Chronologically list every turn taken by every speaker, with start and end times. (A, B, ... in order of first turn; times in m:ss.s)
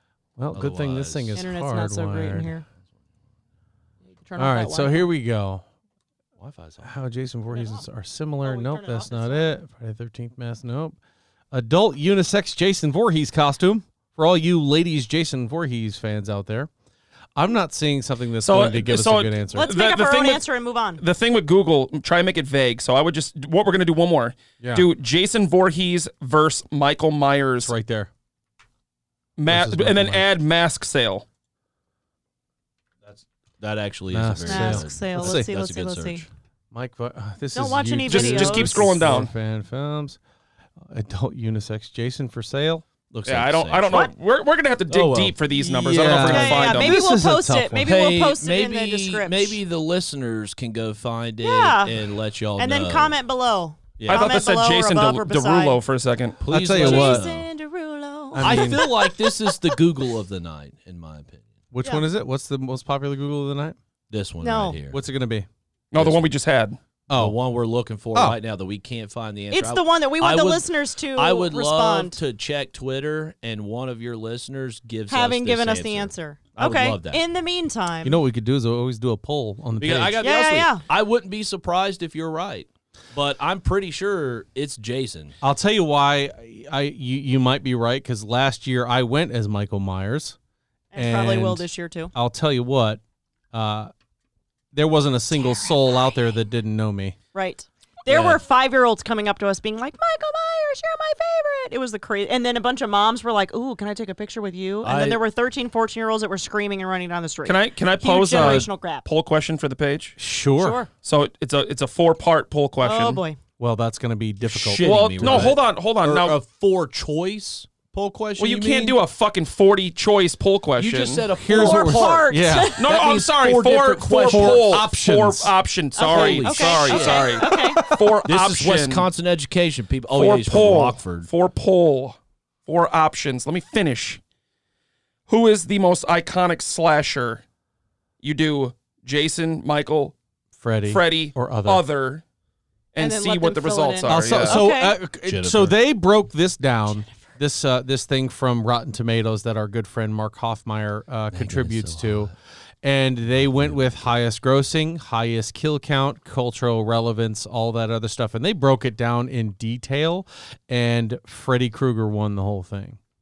0:00.4-0:02.5 A
0:00.5-0:01.4 B
0:01.4-0:02.6 C
0:04.2-0:05.1 C
0:04.4-0:05.6 A
0:06.4-0:06.9 B
0:06.8-0:11.0 A
0:07.5-0:07.8 C
0:08.4-0:09.6 C
0:11.5-0:16.7 A
0:17.4-0:19.7 A
0:18.4-0:20.4 D
0:19.5-0:21.0 C
0:21.0-0:27.7 D
0:24.6-0:24.9 A
0:27.6-0:28.1 A
0:29.4-0:31.3 D
0:29.5-0:30.3 A
0:33.0-0:36.3 B
0:34.1-0:35.5 A
0:34.5-0:36.2 C
0:36.7-0:40.2 A
0:37.5-0:38.9 C
0:38.1-0:39.3 D
0:40.8-0:42.9 A
0:43.1-0:44.1 B
0:43.3-0:46.9 D
0:44.9-0:45.4 B
0:45.5-0:47.9 A
0:46.3-0:49.6 C
0:47.8-0:53.2 B
0:51.4-0:52.0 C
0:52.6-0:55.8 C
0:54.0-0:54.3 B
0:54.1-0:56.4 D
0:56.4-0:57.5 B
0:56.5-0:57.3 A
0:56.7-0:59.8 C
0:58.3-0:58.9 A
0:58.4-1:01.5 B
1:01.7-1:03.8 A
1:04.1-1:05.0 B
1:04.4-1:04.8 C
1:04.9-1:05.5 A
1:05.9-1:06.8 D
1:06.0-1:06.3 B
1:07.1-1:07.4 A
1:07.1-1:17.2 B
1:09.5-1:12.2 C
1:15.1-1:18.2 C
1:18.0-1:20.2 A
1:19.8-1:25.4 B
1:20.2-1:20.8 C
1:25.4-1:30.4 A
1:30.9-1:32.1 C
1:31.0-1:33.0 A
1:33.5-1:33.9 A
1:34.7-1:37.2 A
1:37.3-1:49.0 C
1:38.1-1:38.4 B
1:44.8-1:45.2 B
1:47.4-1:50.2 D
1:48.4-1:48.7 A
1:50.2-1:50.8 A
1:50.6-1:50.9 C
1:51.0-1:53.2 D
1:52.8-1:53.4 C
1:53.6-1:55.6 A
1:54.4-1:59.0 B
1:54.8-1:56.4 D
1:58.4-2:01.3 D
2:00.8-2:04.8 B
2:01.3-2:02.9 A
2:01.5-2:02.8 C
2:02.8-2:09.1 D
2:04.3-2:05.6 A
2:06.0-2:07.9 C
2:06.1-2:11.3 B
2:10.1-2:14.2 D
2:15.3-2:17.4 D
2:18.2-2:20.2 D
2:20.6-2:21.8 A
2:20.9-2:22.2 D
2:22.9-2:24.6 D
2:23.0-2:25.0 C
2:24.1-2:32.3 A
2:25.2-2:25.8 B
2:31.3-2:32.3 B
2:32.8-2:43.0 A
2:33.5-2:33.8 B